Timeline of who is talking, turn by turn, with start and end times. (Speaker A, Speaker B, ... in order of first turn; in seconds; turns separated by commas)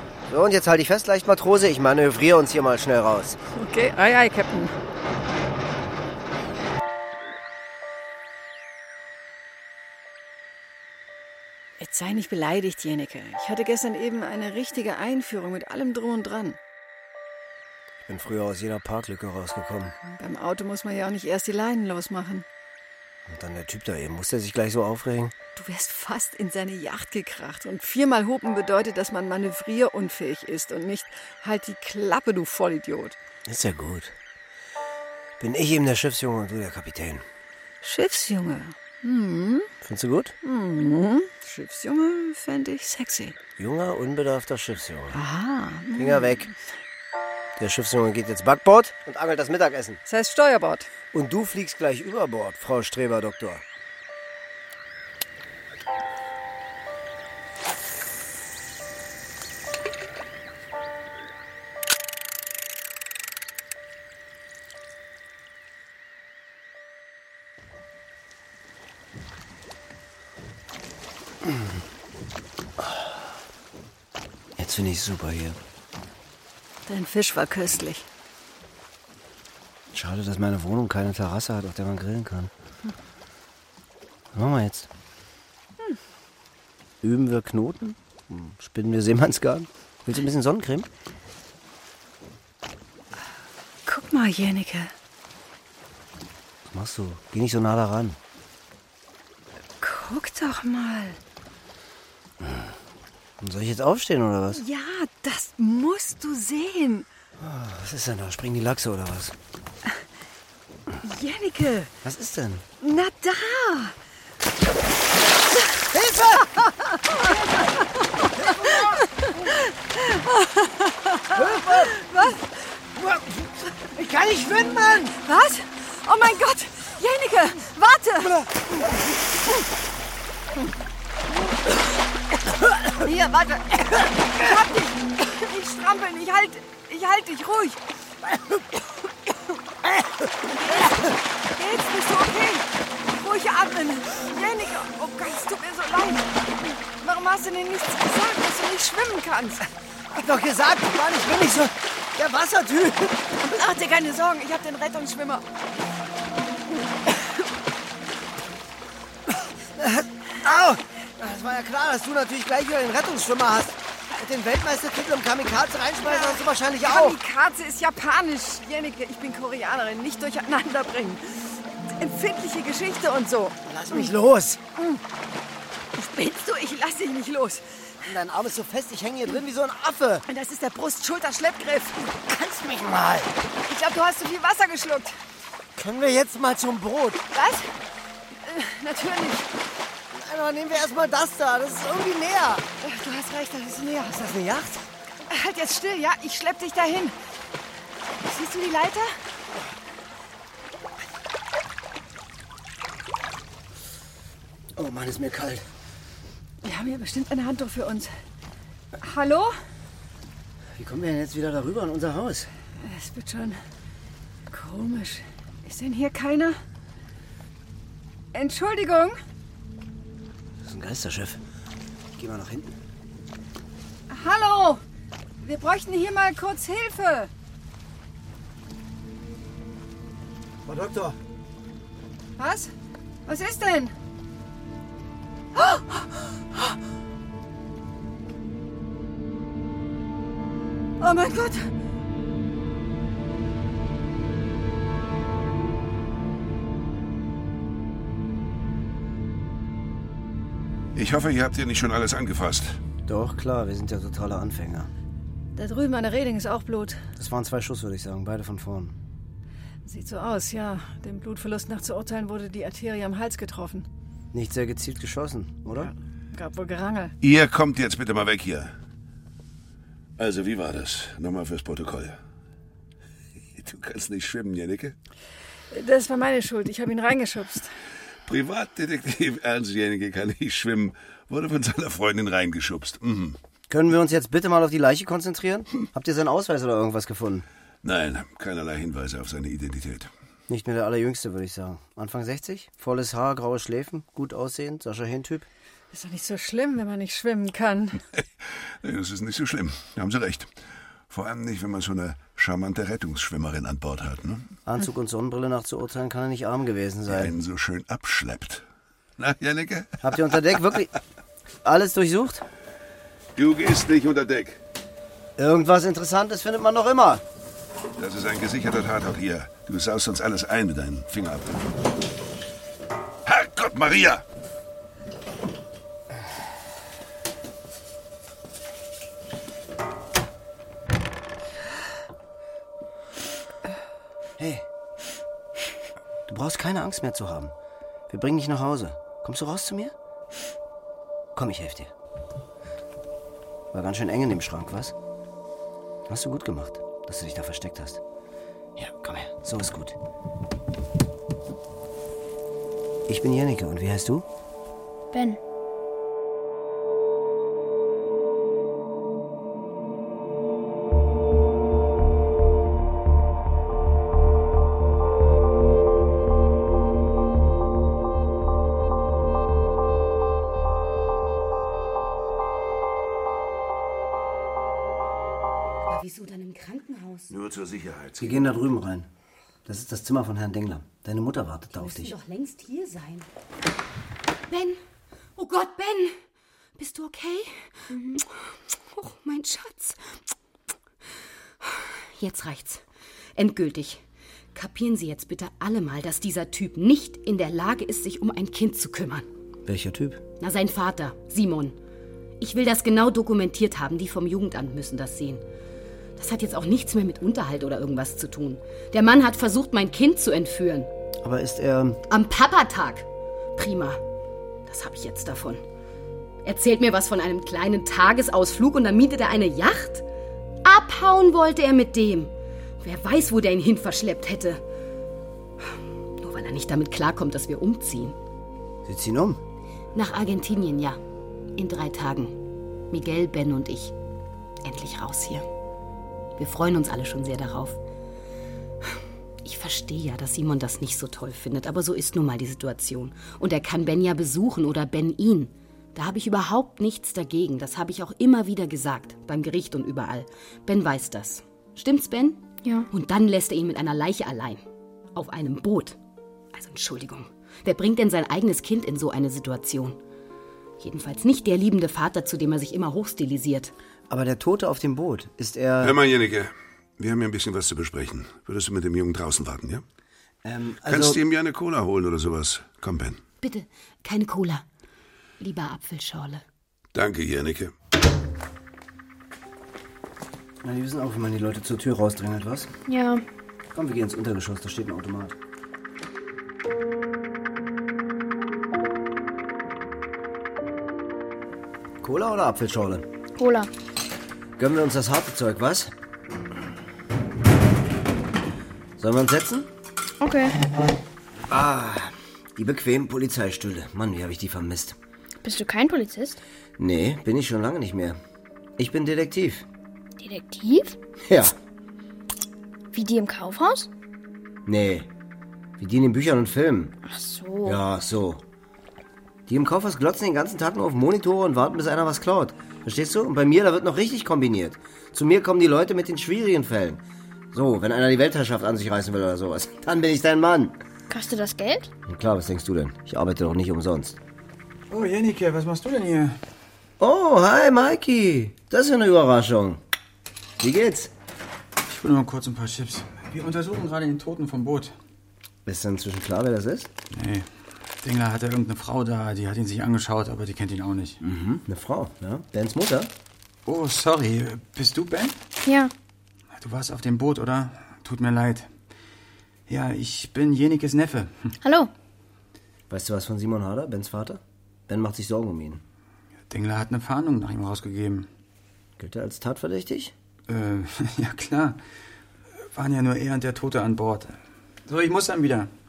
Speaker A: 0.3-3.4, Speaker B: 3.5-4.7, Speaker B: 11.8-16.6, Speaker A: 18.1-20.0, Speaker B: 20.0-22.4, Speaker A: 23.2-25.3, Speaker B: 25.6-33.1, Speaker A: 33.5-34.1, Speaker A: 35.4-37.2, Speaker B: 37.8-39.7, Speaker A: 39.8-40.3, Speaker B: 40.4-43.4, Speaker A: 43.6-45.2, Speaker B: 45.1-46.5, Speaker A: 46.0-46.5, Speaker A: 47.6-50.0, Speaker B: 50.1-50.9, Speaker A: 51.1-53.6, Speaker A: 74.6-75.6, Speaker B: 76.9-78.0, Speaker A: 79.9-82.5, Speaker A: 84.3-84.9, Speaker A: 87.0-90.9, Speaker B: 93.8-94.9, Speaker A: 96.7-98.2, Speaker B: 99.8-101.2, Speaker A: 103.4-104.6, Speaker B: 104.5-107.1, Speaker A: 107.4-109.3, Speaker B: 111.0-111.9, Speaker A: 112.0-112.6, Speaker B: 112.8-114.0, Speaker A: 115.9-116.5, Speaker B: 116.8-122.5, Speaker A: 118.3-119.5, Speaker A: 121.3-122.0, Speaker A: 122.9-125.2, Speaker B: 125.1-128.4, Speaker A: 128.3-128.9, Speaker B: 132.9-137.8, Speaker B: 140.5-146.3, Speaker B: 146.9-149.6, Speaker A: 150.1-153.4, Speaker B: 153.4-155.4, Speaker A: 159.8-167.2, Speaker B: 166.0-174.1, Speaker A: 173.6-174.6, Speaker B: 174.8-175.0, Speaker B: 175.9-177.6, Speaker A: 178.0-180.2, Speaker B: 180.3-182.2, Speaker A: 182.2-183.3, Speaker B: 183.7-185.1, Speaker A: 185.8-187.2, Speaker B: 187.3-187.7, Speaker B: 188.4-189.5, Speaker A: 190.1-192.7, Speaker B: 192.8-194.6, Speaker A: 194.3-194.8, Speaker B: 195.3-197.1, Speaker B: 198.2-199.1, Speaker A: 204.7-205.7, Speaker B: 206.6-208.1, Speaker B: 209.0-209.5, Speaker A: 210.7-212.5, Speaker B: 212.8-213.6, Speaker B: 214.5-216.6, Speaker B: 218.3-219.2, Speaker A: 220.6-221.4, Speaker A: 222.2-222.7, Speaker B: 224.1-224.8, Speaker B: 225.4-227.3, Speaker A: 230.7-231.2, Speaker B: 232.4-232.7, Speaker B: 233.2-233.9, Speaker B: 235.5-236.8, Speaker B: 241.0-241.7, Speaker C: 250.9-252.8, Speaker A: 253.1-254.9, Speaker B: 255.6-257.0, Speaker A: 257.2-259.0, Speaker B: 259.8-263.9, Speaker A: 264.3-265.9, Speaker B: 265.7-267.1, Speaker C: 267.2-268.7, Speaker C: 270.2-272.2, Speaker C: 273.5-274.9, Speaker B: 275.7-277.7, Speaker C: 278.2-283.4, Speaker A: 283.7-287.4, Speaker C: 287.8-290.1, Speaker A: 290.5-295.5, Speaker B: 295.9-298.0, Speaker C: 298.2-300.5, Speaker C: 301.1-304.5, Speaker A: 304.6-307.3, Speaker C: 307.1-308.6, Speaker C: 309.2-310.3, Speaker A: 310.0-310.9, Speaker A: 311.6-312.4, Speaker C: 313.4-314.6, Speaker A: 315.4-317.2, Speaker C: 318.0-321.6, Speaker C: 323.2-324.2, Speaker A: 334.4-334.6, Speaker A: 336.3-337.5, Speaker A: 338.1-339.9, Speaker A: 341.3-341.9, Speaker A: 343.7-344.9, Speaker A: 346.1-348.0, Speaker A: 348.8-350.0, Speaker A: 353.1-354.2, Speaker D: 355.1-355.4, Speaker E: 375.9-377.3, Speaker C: 377.3-378.4, Speaker A: 378.2-379.1, Speaker A: 379.6-382.1, Speaker E: 381.7-383.3, Speaker E: 384.5-384.8, Speaker E: 385.4-386.2, Speaker E: 386.8-390.0, Speaker D: 387.9-388.2, Speaker E: 391.6-392.8, Speaker E: 393.4-394.0, Speaker E: 394.5-399.2, Speaker A: 399.6-400.2, Speaker E: 400.4-401.8, Speaker E: 402.4-405.4, Speaker E: 406.2-410.9, Speaker A: 411.2-412.0, Speaker E: 412.1-413.0, Speaker E: 413.6-414.0, Speaker E: 414.6-415.6, Speaker E: 416.4-420.0, Speaker E: 420.6-424.6, Speaker E: 426.2-428.1, Speaker A: 428.8-429.4, Speaker E: 429.9-431.0, Speaker E: 431.6-433.9, Speaker E: 434.6-435.4, Speaker E: 436.4-437.8, Speaker E: 439.4-454.6, Speaker D: 452.6-452.9, Speaker E: 455.1-456.0, Speaker E: 456.5-460.0, Speaker E: 460.8-463.7, Speaker A: 464.1-466.0, Speaker C: 465.8-469.8, Speaker A: 470.4-471.2, Speaker C: 470.8-473.2, Speaker E: 473.4-474.6, Speaker E: 475.4-476.4, Speaker C: 476.9-477.7, Speaker A: 480.6-482.7, Speaker D: 482.9-483.2, Speaker A: 483.7-485.4, Speaker A: 492.0-493.1, Speaker D: 493.4-493.7, Speaker A: 494.6-495.9, Speaker A: 499.0-499.7, Speaker D: 500.2-500.6, Speaker A: 501.5-504.9, Speaker D: 505.4-506.4, Speaker A: 506.8-508.2, Speaker A: 508.8-509.6, Speaker D: 510.2-511.0, Speaker A: 511.2-511.5, Speaker D: 512.9-513.9, Speaker A: 514.6-515.1, Speaker A: 515.8-517.0, Speaker D: 517.0-517.8, Speaker A: 517.6-518.4, Speaker A: 519.5-530.8, Speaker D: 531.1-531.9, Speaker A: 532.0-534.2, Speaker F: 534.9-536.4, Speaker A: 537.0-539.8, Speaker A: 540.6-541.1, Speaker F: 541.9-544.9, Speaker A: 545.6-546.9, Speaker F: 547.1-547.5, Speaker F: 548.0-551.2, Speaker A: 551.2-553.1, Speaker F: 553.6-555.4, Speaker D: 555.6-555.9, Speaker F: 556.5-558.7, Speaker F: 559.7-561.5, Speaker D: 561.6-561.9, Speaker A: 562.9-565.8, Speaker F: 566.5-568.3, Speaker A: 569.0-570.1, Speaker F: 570.5-571.8, Speaker F: 572.6-575.7